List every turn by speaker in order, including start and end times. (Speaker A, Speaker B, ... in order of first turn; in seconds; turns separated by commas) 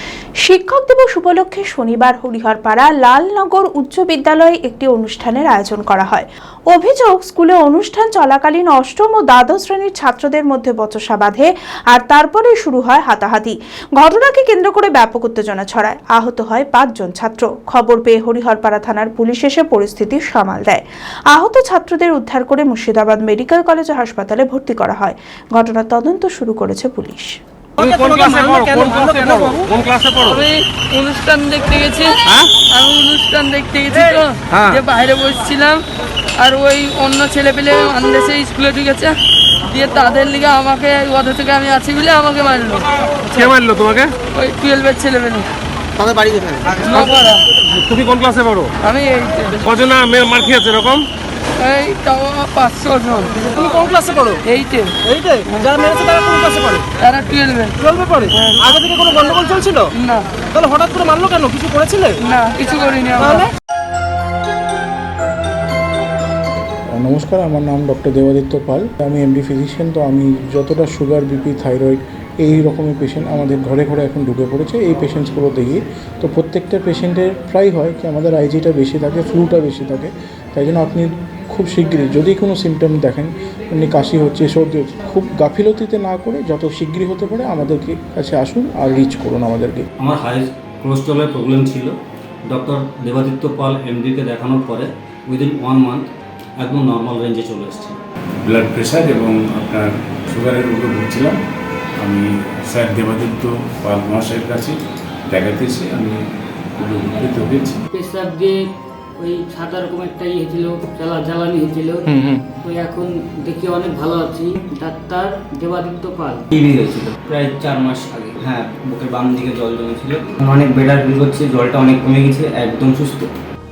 Speaker A: 0.5-20.8, Speaker A: 21.3-27.4, Speaker B: 27.8-29.7, Speaker C: 27.8-30.4, Speaker D: 30.1-35.8, Speaker D: 36.4-42.9, Speaker C: 43.4-44.2, Speaker D: 44.2-45.5, Speaker C: 46.0-46.7, Speaker D: 46.8-47.5, Speaker C: 47.7-48.7, Speaker D: 48.8-49.9, Speaker C: 49.9-51.0, Speaker D: 51.6-53.9, Speaker B: 53.7-54.4, Speaker D: 54.4-55.7, Speaker B: 55.0-56.8, Speaker D: 57.0-57.8, Speaker B: 57.8-59.9, Speaker D: 58.3-58.6, Speaker D: 60.0-60.4, Speaker B: 60.5-62.1, Speaker D: 62.2-63.5, Speaker B: 63.2-63.5, Speaker E: 67.0-89.9, Speaker F: 90.0-91.9, Speaker F: 92.5-96.1, Speaker F: 96.6-98.0, Speaker G: 98.4-101.3, Speaker G: 102.0-104.8, Speaker G: 105.3-106.2, Speaker G: 106.8-107.8, Speaker H: 107.9-108.6, Speaker H: 109.2-116.5, Speaker E: 112.1-112.4, Speaker F: 116.5-123.3